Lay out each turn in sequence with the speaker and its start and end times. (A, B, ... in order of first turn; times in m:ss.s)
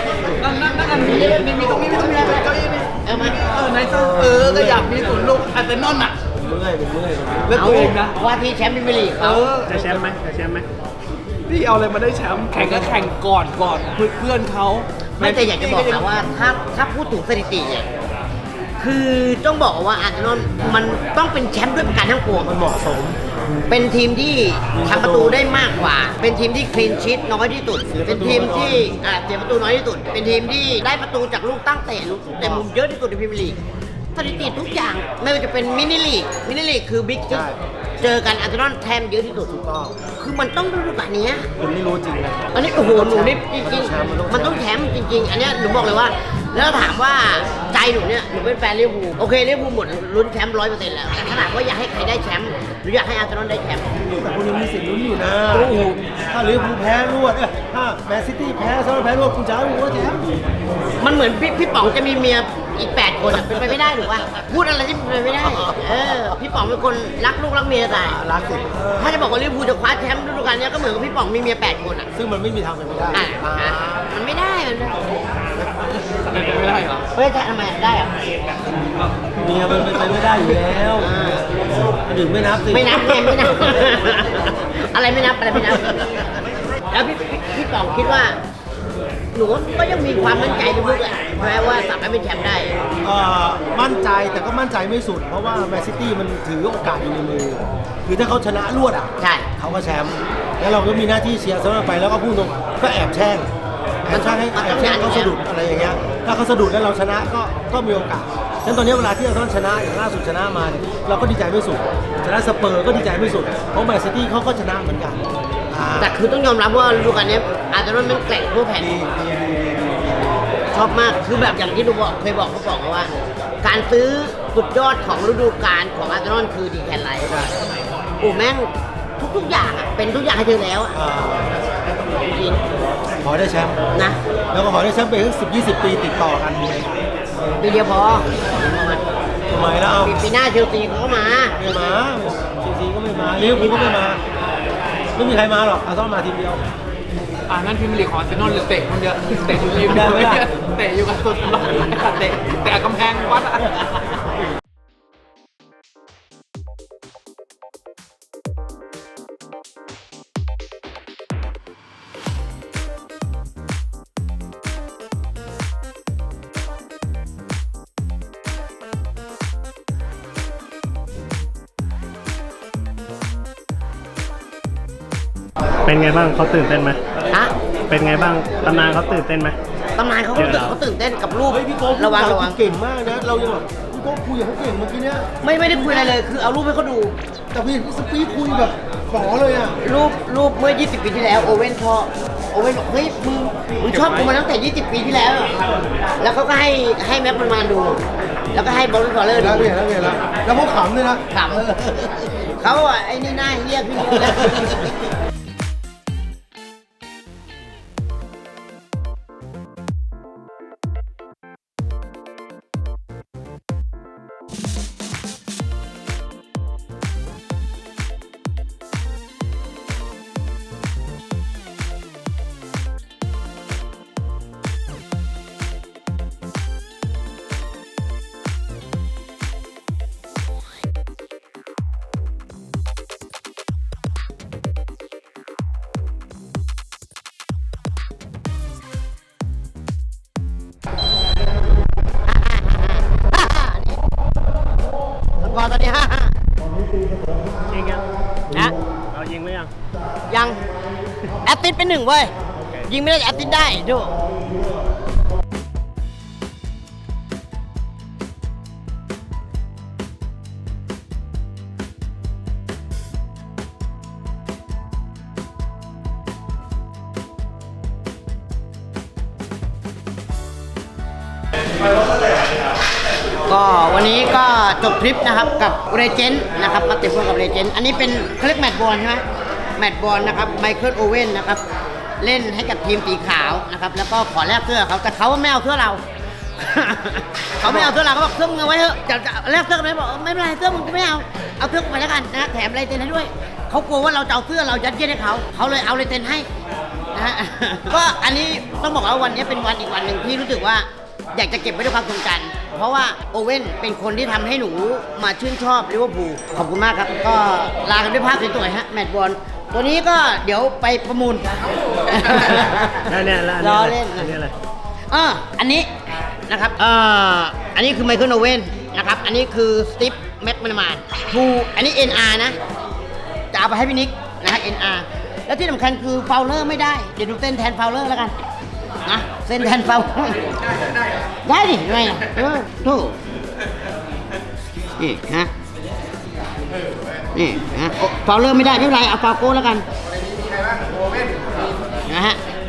0:00.2-0:02.5 A
0:00.3-0:06.2 B
0:03.0-0:03.4 A
0:03.8-0:04.9 C
0:06.4-0:07.9 C
0:07.4-0:08.2 B
0:07.5-0:09.5 A
0:09.2-0:10.6 B
0:09.7-0:10.6 D
0:11.5-0:16.1 B
0:15.2-0:17.9 A
0:18.8-0:22.5 A
0:22.4-0:23.2 C
0:23.7-0:33.6 A
0:24.7-0:25.4 C
0:27.9-0:28.9 C
0:32.4-0:32.6 C
0:34.1-0:37.5 A
0:37.3-0:37.6 C
0:38.0-0:39.5 A
0:39.5-0:40.0 C
0:40.1-0:41.5 A
0:41.6-0:44.6 C
0:42.5-0:54.0 A
0:54.1-1:00.3 C
0:55.5-0:56.0 A
1:01.0-1:08.2 A
1:03.3-1:04.0 C
1:05.4-1:06.1 C
1:08.0-1:09.2 C
1:09.0-1:12.1 A
1:12.2-1:14.1 C
1:13.1-1:15.0 A
1:15.6-1:15.9 C
1:16.2-1:17.0 B
1:17.1-1:18.1 A
1:19.4-1:21.1 C
1:21.0-1:21.4 A
1:22.0-1:23.8 C
1:22.7-1:26.2 A
1:25.6-1:26.2 C
1:26.9-1:28.4 A
1:29.3-1:32.7 A
1:33.0-1:43.5 C
1:39.2-1:39.5 A
1:44.0-1:56.2 C
1:44.1-1:45.4 A
1:56.0-1:59.0 A
1:58.8-2:00.4 C
2:00.7-2:03.1 A
2:03.6-2:07.6 A
2:08.2-2:11.0 A
2:10.9-2:11.6 C
2:12.2-2:12.6 A
2:13.2-2:13.8 C
2:14.5-2:16.9 C
2:17.6-2:19.0 A
2:19.5-2:20.1 C
2:20.0-2:21.6 A
2:21.6-2:24.2 C
2:25.2-2:26.6 C
2:27.5-2:33.9 B
2:29.8-2:30.5 C
2:55.8-2:57.0 D
2:57.9-2:59.6 D
3:00.0-3:02.6 A
3:00.4-3:00.7 D
3:01.5-3:05.3 C
3:05.4-3:07.2 A
3:07.5-3:09.8 C
3:09.8-3:15.6 A
3:16.2-3:18.0 A
3:18.5-3:19.7 A
3:19.3-3:22.1 C
3:21.3-3:21.9 A
3:22.6-3:24.9 A
3:24.1-3:24.8 C
4:02.2-4:04.0 A
4:05.4-4:06.3 A
4:07.7-4:08.1 D
4:09.1-4:09.7 D
4:10.3-4:10.6 A
4:11.4-4:14.1 A
4:33.4-4:39.2 A
4:39.8-4:41.6 A
4:42.2-4:46.0 A
4:46.6-4:56.5 A
4:47.6-4:47.9 C
4:57.1-5:14.4 A
5:13.1-5:14.5 D
5:15.1-5:15.9 A
5:16.5-5:22.6 A
5:23.5-5:28.4 A
5:29.0-5:30.4 A
5:31.5-5:33.2 A
5:35.0-5:35.5 A
5:37.3-5:39.9 A
5:42.1-5:42.4 A